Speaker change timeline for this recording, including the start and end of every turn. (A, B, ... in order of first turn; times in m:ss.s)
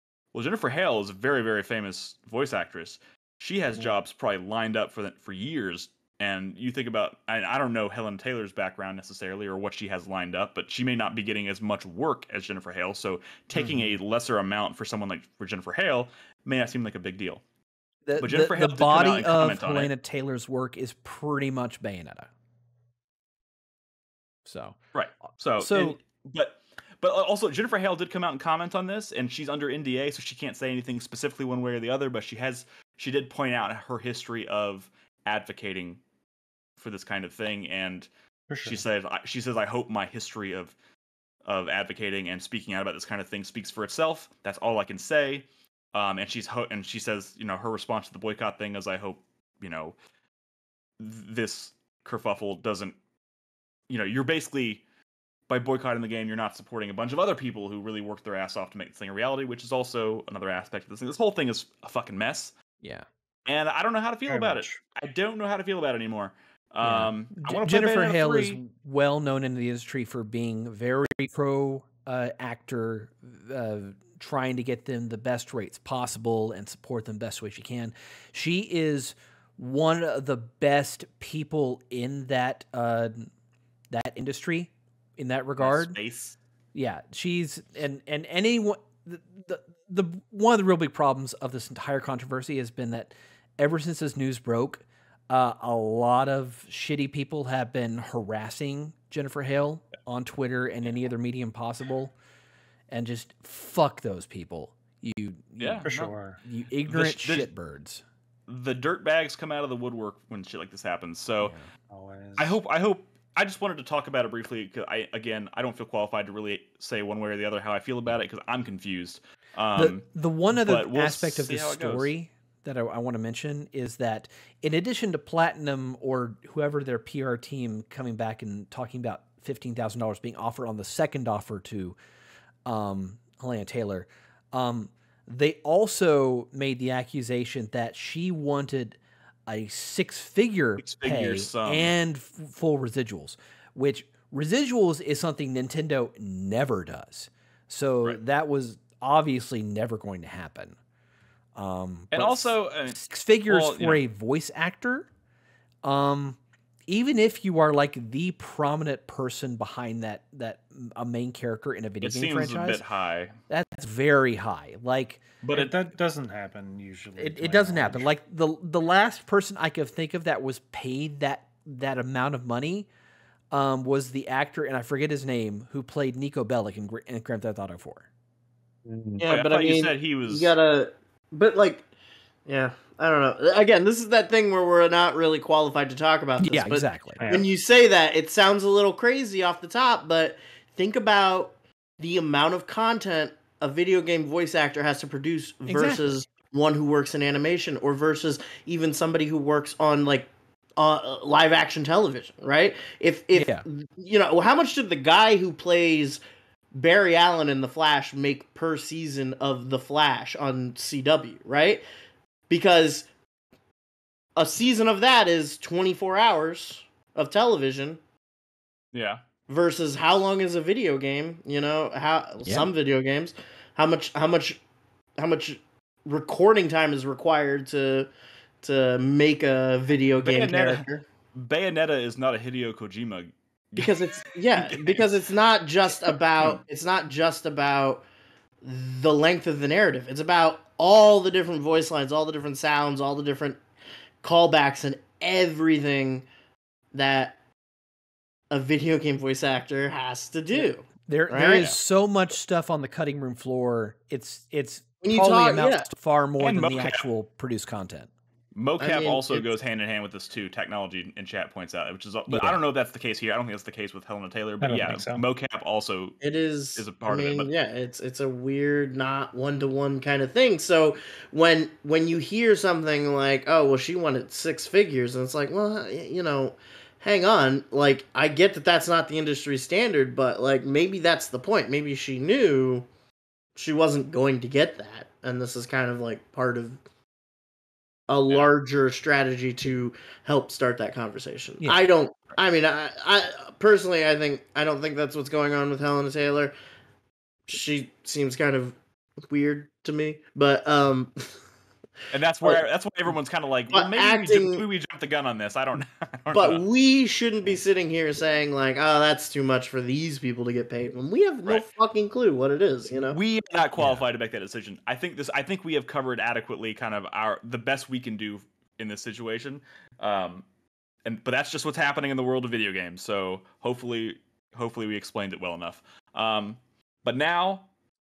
0:00.3-0:17.4 A
0:13.5-0:14.0 B
0:18.1-0:22.3 C
0:18.2-0:19.9 A
0:24.4-0:24.8 C
0:24.9-0:36.0 A
0:25.6-0:26.0 C
0:36.8-0:38.1 A
0:38.5-0:38.8 B
0:38.6-0:40.7 A
0:41.4-0:49.9 A
0:51.0-0:53.0 A
0:53.9-0:54.8 A
0:55.5-1:02.5 A
1:02.8-1:03.1 C
1:03.4-1:08.6 A
1:04.3-1:04.8 B
1:06.8-1:23.3 C
1:23.9-1:26.0 C
1:25.6-1:26.4 A
1:26.7-1:42.1 C
1:42.9-1:45.9 C
1:45.6-1:46.1 A
1:45.8-1:46.4 B
1:46.4-1:48.0 C
1:46.9-1:47.5 A
1:48.5-1:51.5 A
1:51.4-1:51.7 C
1:51.9-1:52.6 B
1:52.4-2:02.1 A
1:59.8-2:12.0 C
2:12.7-2:30.8 C
2:20.8-2:21.9 A
2:31.6-2:35.1 C
2:32.1-2:34.0 A
2:35.8-2:36.4 C
2:36.9-2:42.8 C
2:42.0-2:43.3 A
2:43.5-2:45.2 C
2:45.4-2:45.7 A
2:45.5-2:48.1 B
2:47.2-2:52.9 C
2:53.5-2:58.1 C
2:58.9-2:59.2 B
2:59.2-3:01.8 D
2:59.2-3:00.6 A
3:02.4-3:26.2 D
3:06.4-3:07.2 C
3:07.2-3:07.5 B
3:15.7-3:16.1 C
3:23.3-3:23.6 C
3:26.7-3:31.8 D
3:32.5-3:33.1 D
3:34.4-3:38.0 D
3:38.9-3:39.2 A
3:39.5-3:44.6 D
3:45.2-3:48.1 D
3:48.6-3:51.0 D
3:50.2-3:55.1 A
3:53.8-3:58.0 D
3:58.6-4:03.6 D
4:04.2-4:06.3 D
4:06.9-4:07.3 D
4:08.5-4:11.7 D
4:11.0-4:18.1 C
4:15.0-4:15.9 D
4:16.4-4:17.0 A
4:18.6-4:26.2 A
4:18.8-4:19.5 D
4:22.3-4:22.6 C
4:24.6-4:25.2 B
4:26.2-4:42.8 D
4:26.8-4:27.5 A
4:43.5-4:46.8 D
4:48.1-4:56.5 D
4:57.5-4:58.8 D
4:59.3-5:01.3 D
5:02.1-5:06.6 A
5:03.7-5:04.6 D
5:06.3-5:13.2 D
5:13.1-5:20.4 A
5:21.0-5:27.7 A